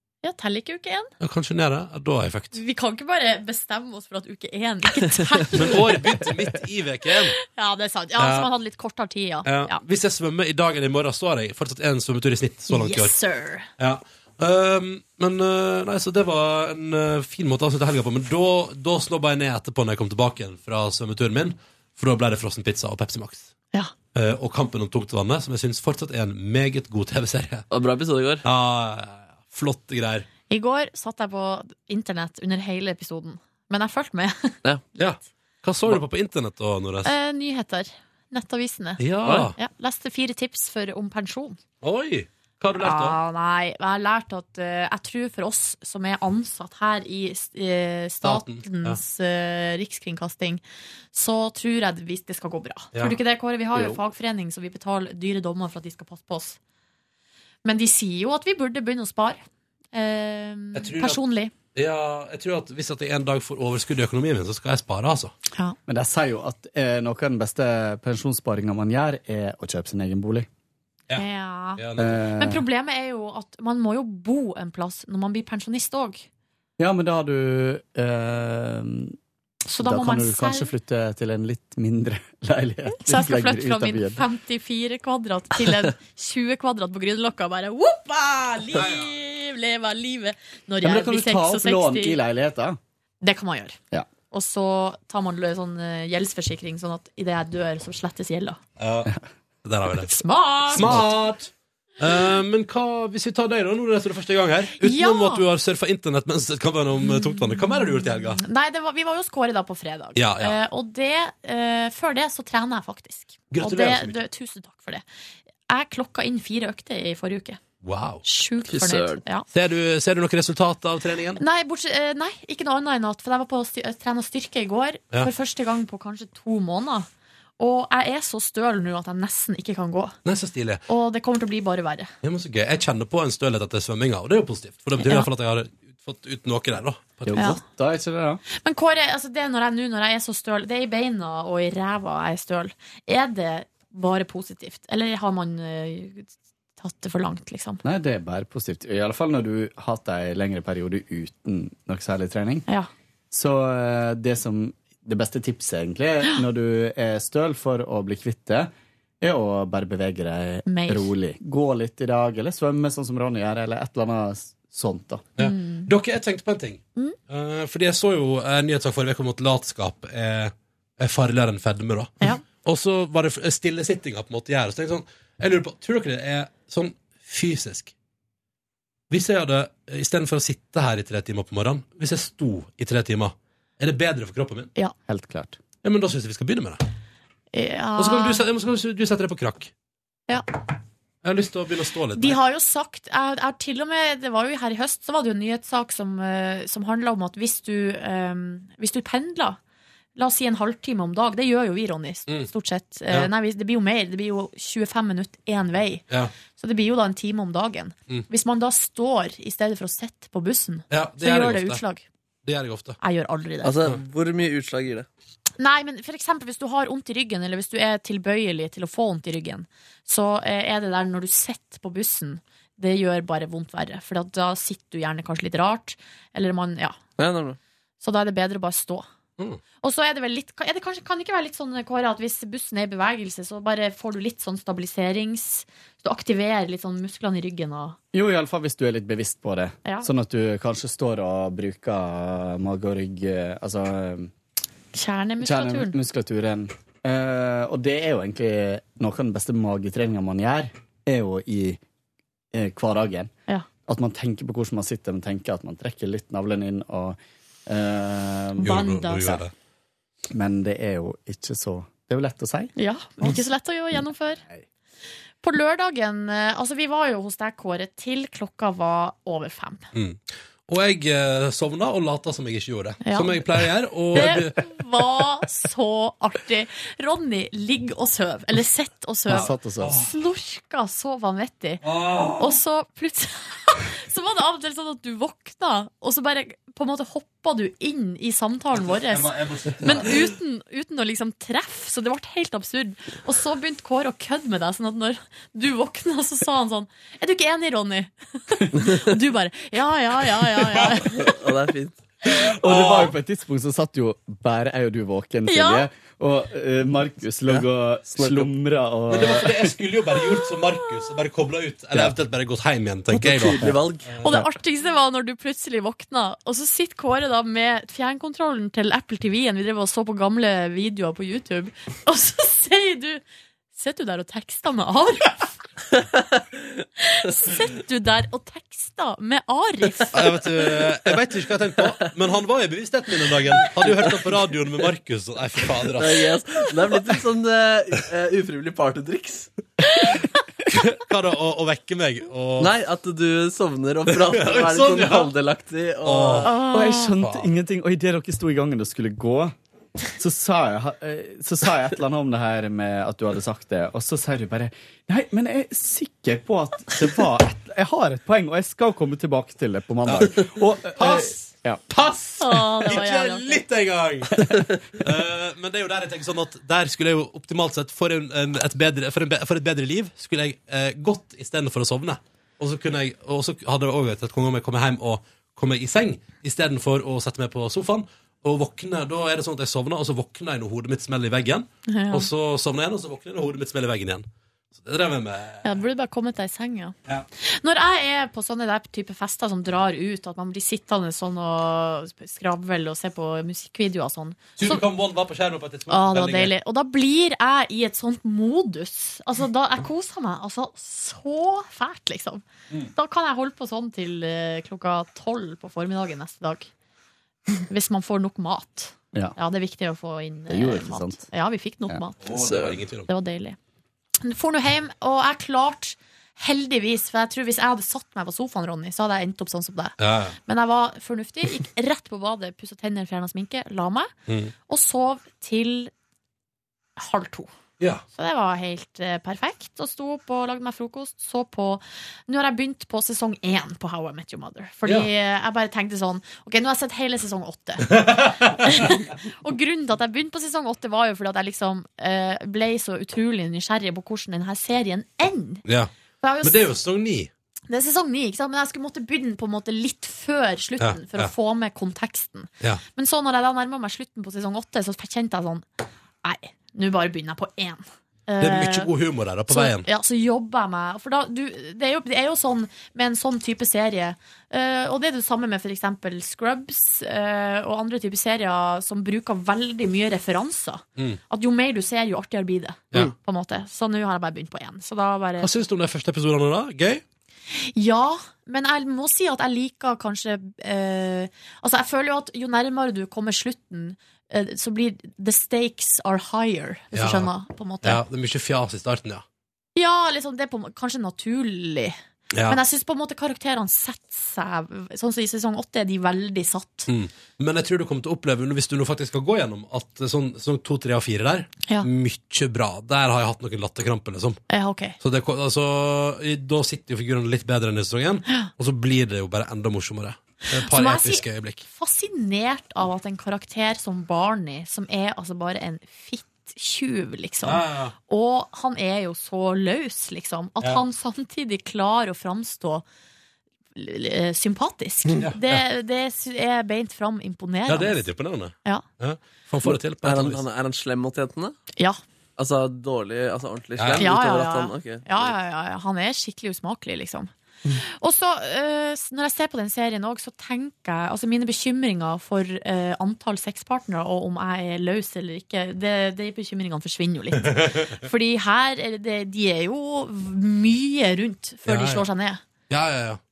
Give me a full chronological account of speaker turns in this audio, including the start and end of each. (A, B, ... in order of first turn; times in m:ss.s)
0:00.2-0:01.1 A
0:01.2-0:02.6 B
0:02.5-0:06.3 A
0:05.6-0:07.4 B
0:07.4-0:09.8 A
0:08.2-0:08.5 B
0:09.4-0:13.2 B
0:12.7-0:13.7 A
0:13.8-0:23.5 B
0:24.1-0:27.7 B
0:27.7-0:28.4 C
0:28.4-0:30.3 B
0:30.5-0:34.6 A
0:35.0-0:37.1 B
0:37.0-0:39.0 A
0:39.0-0:39.6 B
0:39.3-0:39.5 C
0:39.6-0:41.6 A
0:41.8-0:43.2 B
0:42.8-0:50.6 A
0:48.2-0:49.0 B
0:51.1-0:56.6 A
0:52.9-0:53.2 B
0:57.6-0:59.4 A
0:59.9-1:01.5 A
1:00.8-1:01.2 B
1:01.8-1:05.3 B
1:05.9-1:10.5 D
1:11.2-1:11.8 A
1:11.8-1:12.3 B
1:12.0-1:12.6 D
1:12.4-1:16.3 A
1:16.8-1:19.2 D
1:19.7-1:20.7 A
1:19.8-1:24.2 D
1:23.0-1:32.2 A
1:28.7-1:29.1 B
1:30.8-1:32.8 D
1:33.2-1:33.8 A
1:34.3-1:38.6 A
1:38.8-1:39.1 B
1:39.6-1:48.4 B
1:40.1-1:41.1 A
1:40.8-1:41.1 D
1:44.8-1:45.4 A
1:47.0-1:55.0 A
1:50.2-1:50.6 B
1:53.5-1:54.2 B
1:55.7-1:57.6 A
1:57.8-1:58.2 B
1:58.2-1:59.5 A
1:58.7-1:59.2 C
1:59.5-2:01.4 B
2:01.4-2:07.1 A
2:07.6-2:10.2 A
2:10.2-2:10.8 B
2:10.9-2:12.1 A
2:12.2-2:17.6 B
2:15.0-2:15.3 A
2:17.3-2:18.4 D
2:17.3-2:17.6 A
2:18.5-2:27.8 A
2:27.8-2:32.7 D
2:33.3-2:45.2 D
2:40.7-2:41.1 A
2:45.4-2:57.9 B
2:45.4-2:45.9 A
2:59.1-3:04.7 B
3:05.1-3:05.6 D
3:05.8-3:06.8 B
3:07.5-3:08.4 A
3:08.0-3:09.7 B
3:11.2-3:12.4 B
3:12.2-3:19.6 A
3:20.2-3:26.0 A
3:26.6-3:32.0 A
3:30.9-3:31.8 B
3:32.4-3:33.0 B
3:33.0-3:33.8 A
3:33.6-3:35.1 C
3:35.6-3:47.0 A
3:47.2-3:47.6 C
3:48.0-3:49.1 A
3:49.8-3:58.0 A
3:58.1-4:04.3 D
4:04.9-4:06.0 A
4:05.4-4:11.8 D
4:12.5-4:19.4 D
4:18.6-4:19.4 A
4:18.6-4:19.5 B
4:20.3-4:22.7 D
4:22.8-4:24.4 A
4:25.4-4:29.9 A
4:29.9-4:34.6 B
4:33.0-4:33.4 A
4:34.1-4:41.8 A
4:39.3-4:40.0 D
4:39.3-4:40.1 B
4:41.8-4:42.6 B
4:42.4-5:01.2 A
4:48.7-4:50.3 B
5:01.1-5:02.0 C
5:02.6-5:09.7 D
5:02.6-5:03.1 B
5:05.5-5:05.9 A
5:08.1-5:08.5 C
5:09.1-5:14.4 B
5:13.1-5:14.1 C
5:13.6-5:14.5 D
5:14.2-5:23.2 A
5:23.7-5:25.5 A
5:27.0-5:30.2 A
5:30.1-5:36.3 B
5:34.0-5:34.2 C
5:36.0-5:39.5 C
5:40.7-5:42.7 B
5:42.6-5:46.6 C
5:44.1-5:45.3 B
5:46.0-5:46.5 B
5:46.4-5:47.2 A
5:46.7-5:49.5 D
5:47.2-5:47.5 B
5:50.1-6:01.8 D
6:00.0-6:25.8 B
6:02.4-6:03.6 A
6:21.9-6:22.3 A
6:25.6-6:34.8 A
6:34.6-6:36.5 B
6:35.9-6:46.7 A
6:47.7-6:52.3 A
6:50.5-6:51.3 D
6:52.2-6:53.1 B
6:52.4-6:52.8 C
6:53.1-6:53.6 A
6:54.2-7:04.1 A
7:00.0-7:00.4 B
7:04.3-7:04.5 B
7:04.7-7:05.9 A
7:07.0-7:07.5 A
7:07.8-7:08.0 B
7:08.1-7:25.6 A
7:17.9-7:18.9 B
7:25.7-7:25.9 B
7:26.2-7:26.6 A
7:26.4-7:27.3 B
7:27.7-7:35.6 A
7:30.8-7:31.3 B
7:36.2-7:38.9 A
7:38.4-7:39.9 B
7:39.5-7:55.5 A
7:55.4-7:57.0 B
7:57.5-8:08.0 A
8:06.9-8:07.3 B
8:07.8-8:09.2 B
8:09.8-8:12.0 A
8:12.3-8:12.6 B
8:12.5-8:16.9 A
8:16.9-8:24.4 B
8:24.5-8:25.0 A
8:25.0-8:31.6 B
8:30.5-8:42.8 A
8:37.4-8:37.9 B
8:43.8-8:48.1 A
8:45.2-8:45.7 B
8:47.7-8:50.4 B
8:49.6-8:51.6 C
8:52.4-8:55.2 C
8:53.8-8:54.1 B
8:54.0-8:57.3 A
8:57.8-9:12.4 A
9:07.4-9:08.0 B
9:11.7-9:12.0 B
9:12.7-9:13.2 B